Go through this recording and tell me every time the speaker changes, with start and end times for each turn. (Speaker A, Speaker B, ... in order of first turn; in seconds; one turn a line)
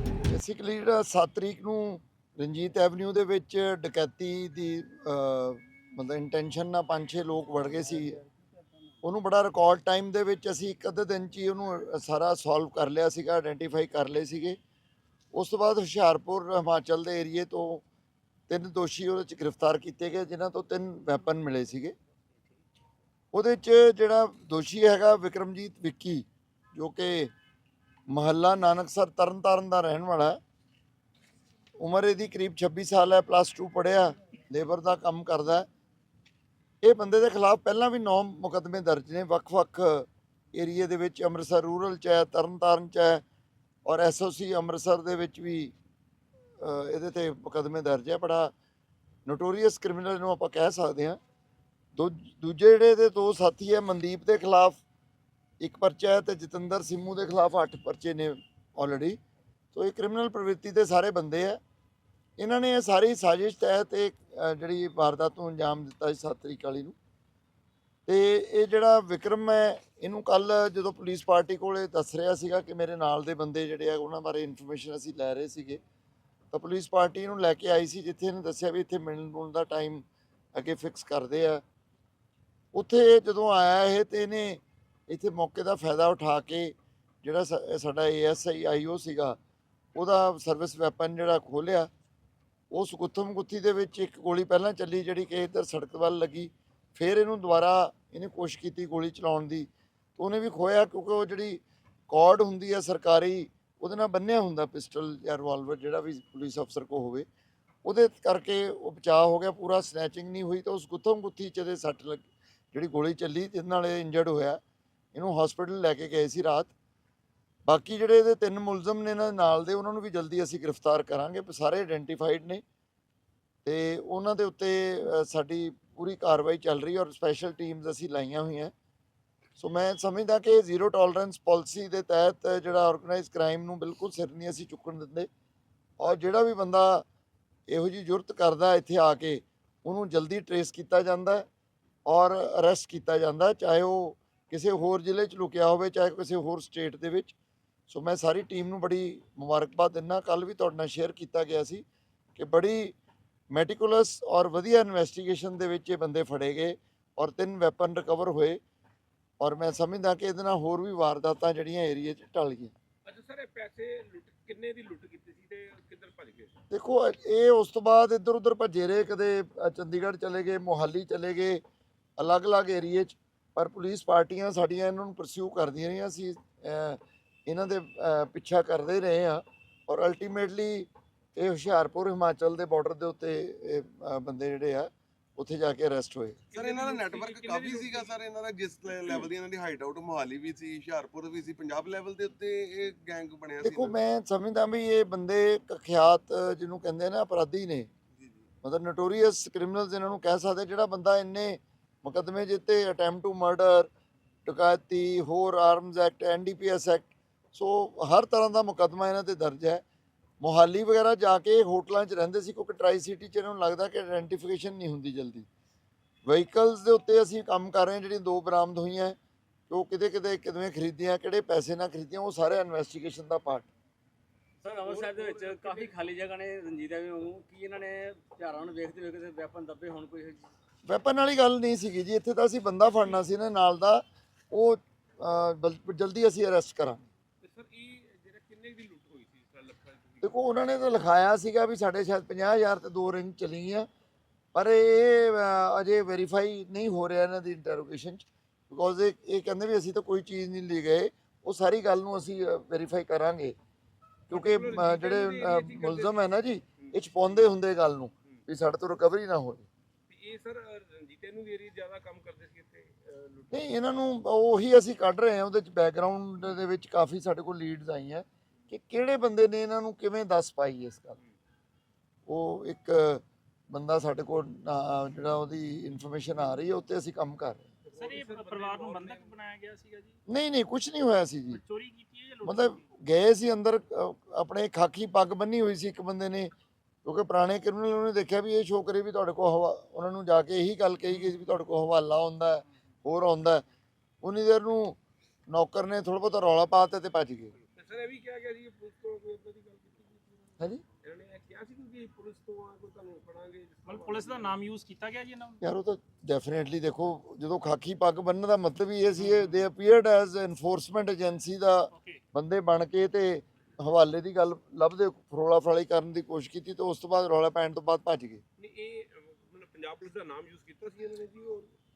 Speaker A: 0.3-8.2
Speaker A: 9.0-14.6
Speaker A: 15.3-17.8
Speaker A: 18.5-21.9
Speaker A: 23.3-27.3
Speaker A: 28.1-30.4
Speaker A: 31.8-35.7
Speaker A: 36.8-43.2
Speaker A: 43.8-45.7
Speaker A: 46.6-48.5
Speaker A: 49.2-51.2
Speaker A: 51.9-54.8
Speaker A: 55.6-59.2
Speaker A: 59.7-61.6
Speaker A: 62.4-66.9
Speaker A: 68.0-75.8
Speaker A: 76.5-81.6
Speaker A: 82.7-89.4
Speaker A: 89.9-91.9
Speaker A: 92.7-107.2
Speaker A: 107.8-114.6
Speaker A: 115.1-116.7
Speaker A: 117.6-122.6
Speaker A: 123.6-128.7
Speaker A: 129.6-135.3
Speaker A: 136.0-137.0
Speaker A: 137.7-141.5
Speaker A: 142.1-147.3
Speaker A: 147.9-151.8
Speaker A: 152.3-152.9
Speaker A: 153.5-158.6
Speaker A: 159.4-162.7
Speaker B: 163.1-166.5
Speaker A: 166.7-171.6
Speaker A: 172.2-186.4
Speaker B: 186.5-188.2
Speaker C: 186.5-193.9
Speaker B: 189.0-189.3
Speaker A: 193.6-197.9
Speaker C: 198.2-198.5
Speaker A: 198.6-203.9
Speaker A: 204.4-209.8
Speaker A: 210.4-215.5
Speaker A: 216.2-219.2
Speaker A: 219.7-223.7
Speaker D: 224.6-230.5
Speaker B: 224.8-225.9
Speaker A: 230.8-237.0
Speaker B: 237.4-240.4
Speaker A: 240.2-243.9
Speaker A: 244.5-253.6
Speaker A: 254.3-259.7
Speaker B: 254.3-256.3
Speaker B: 260.1-263.7
Speaker A: 263.5-271.2
Speaker A: 272.3-277.7
Speaker B: 277.9-279.3
Speaker E: 277.9-280.2
Speaker A: 280.3-281.6
Speaker E: 281.5-282.8
Speaker A: 282.4-286.5
Speaker A: 287.0-293.6
Speaker A: 294.2-295.0
Speaker A: 295.5-297.5
Speaker B: 297.7-304.6
Speaker E: 303.9-305.6
Speaker A: 305.6-318.4
Speaker E: 311.9-312.2
Speaker B: 318.6-321.7